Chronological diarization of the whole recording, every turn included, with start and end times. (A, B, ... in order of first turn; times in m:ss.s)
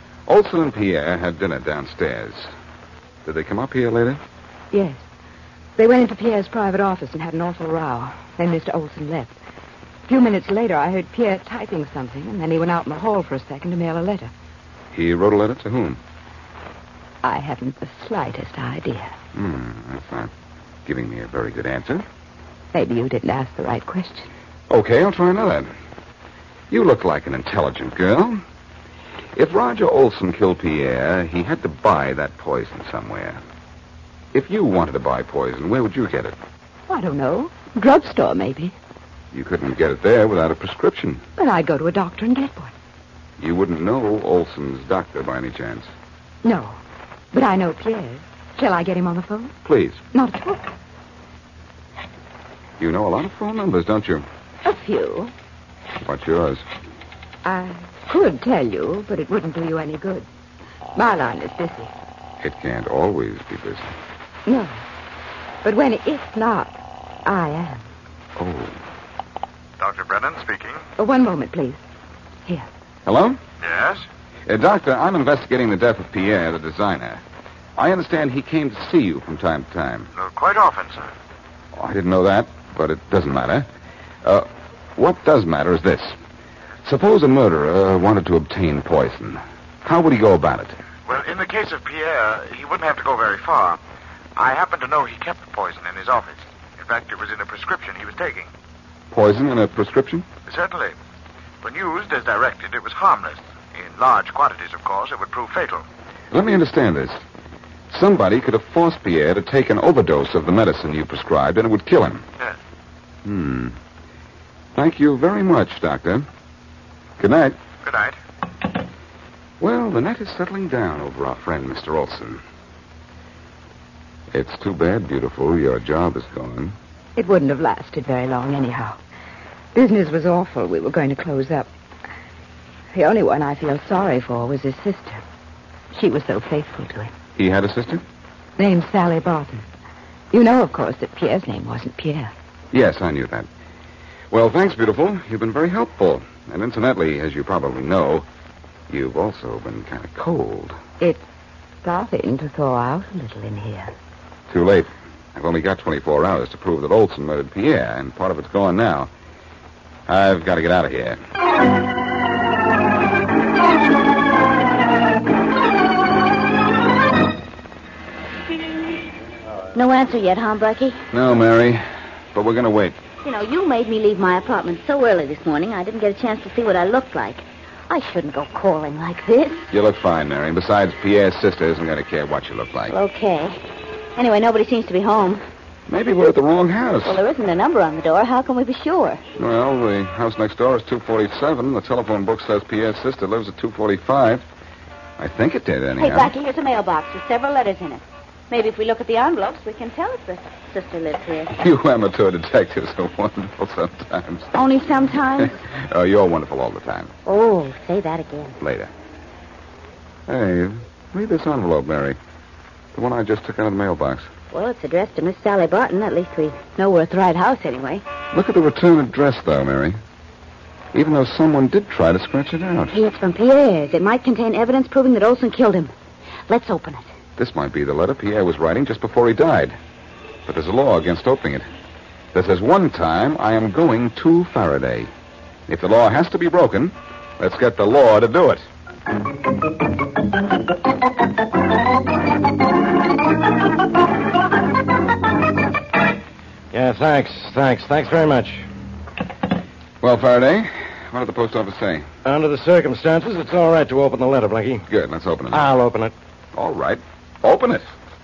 0:00.3-0:02.5 A
0:03.2-0:04.2 A
0:04.7-0:05.0 B
0:05.8-0:09.3 B
0:10.1-0:14.3 B
0:14.9-0:16.0 A
0:17.2-0:19.1 B
0:19.3-0:20.3 A
0:20.8-0:22.0 A
0:22.7-0:24.3 B
0:24.7-0:25.7 A
0:26.7-0:28.4 A
0:29.4-0:33.4 A
0:34.3-0:36.4 A
0:36.9-0:38.7 B
0:39.3-0:41.2 A
0:41.4-0:42.7 B
0:43.4-0:45.9 A
0:46.4-0:46.8 B
0:47.3-0:49.5 B
0:49.6-0:50.0 A
0:50.1-0:50.7 B
0:52.8-0:54.2 A
0:54.6-0:55.3 B
0:56.0-0:56.6 A
0:57.4-1:00.2 B
1:01.0-1:01.9 B
1:02.4-1:03.9 A
1:04.4-1:04.8 B
1:05.6-1:06.7 B
1:07.2-1:07.8 B
1:08.4-1:08.8 A
1:09.8-1:10.8 C
1:11.0-1:11.8 B
1:13.0-1:13.4 A
1:13.6-1:14.0 C
1:14.5-1:17.2 A
1:17.8-1:20.1 A
1:20.1-1:21.1 C
1:21.7-1:23.6 A
1:24.2-1:26.1 A
1:26.8-1:30.8 A
1:31.0-1:33.8 C
1:34.4-1:38.5 C
1:39.1-1:40.3 A
1:40.4-1:40.9 C
1:41.6-1:45.8 C
1:46.3-1:47.2 A
1:47.9-1:52.2 A
1:53.2-1:53.8 A
1:54.7-1:56.2 A
1:57.2-1:57.6 A
1:57.8-1:58.2 C
1:59.6-2:02.4 A
2:04.3-2:06.7 A
2:07.2-2:09.0 B
2:09.7-2:11.7 B
2:12.9-2:15.2 B
2:15.9-2:17.1 B
2:17.4-2:18.0 A
2:18.6-2:19.6 B
2:20.3-2:22.3 B
2:22.7-2:23.5 A
2:24.3-2:28.2 A
2:28.9-2:30.8 A
2:31.8-2:33.9 B
2:34.5-2:39.1 A
2:40.1-2:41.2 A
2:49.7-2:51.0 D
2:51.1-2:51.8 A
2:52.3-2:53.0 A
2:53.2-2:59.7 D
2:59.7-3:02.9 A
3:02.9-3:03.6 D
3:04.2-3:05.4 D
3:05.9-3:07.2 A
3:07.0-3:09.2 D
3:09.4-3:14.4 A
3:15.2-3:16.3 A
3:16.0-3:21.5 D
3:21.5-3:24.5 A
3:24.5-3:25.5 D
3:25.4-3:27.1 A
3:27.2-3:28.6 D
3:28.6-3:28.9 A
3:30.3-3:32.2 A
3:32.9-3:34.3 A
3:34.5-3:38.0 D
3:38.3-3:40.0 A
3:40.9-3:42.9 A
3:42.9-3:45.9 D
3:46.5-3:47.1 D
3:47.4-3:49.8 A
3:50.4-3:51.6 A
3:52.3-3:55.1 A
3:55.7-3:58.6 A
4:06.7-4:08.6 E
4:10.0-4:12.0 A
4:12.2-4:14.8 E
4:14.9-4:15.7 A
4:15.5-4:16.1 E
4:16.5-4:17.9 A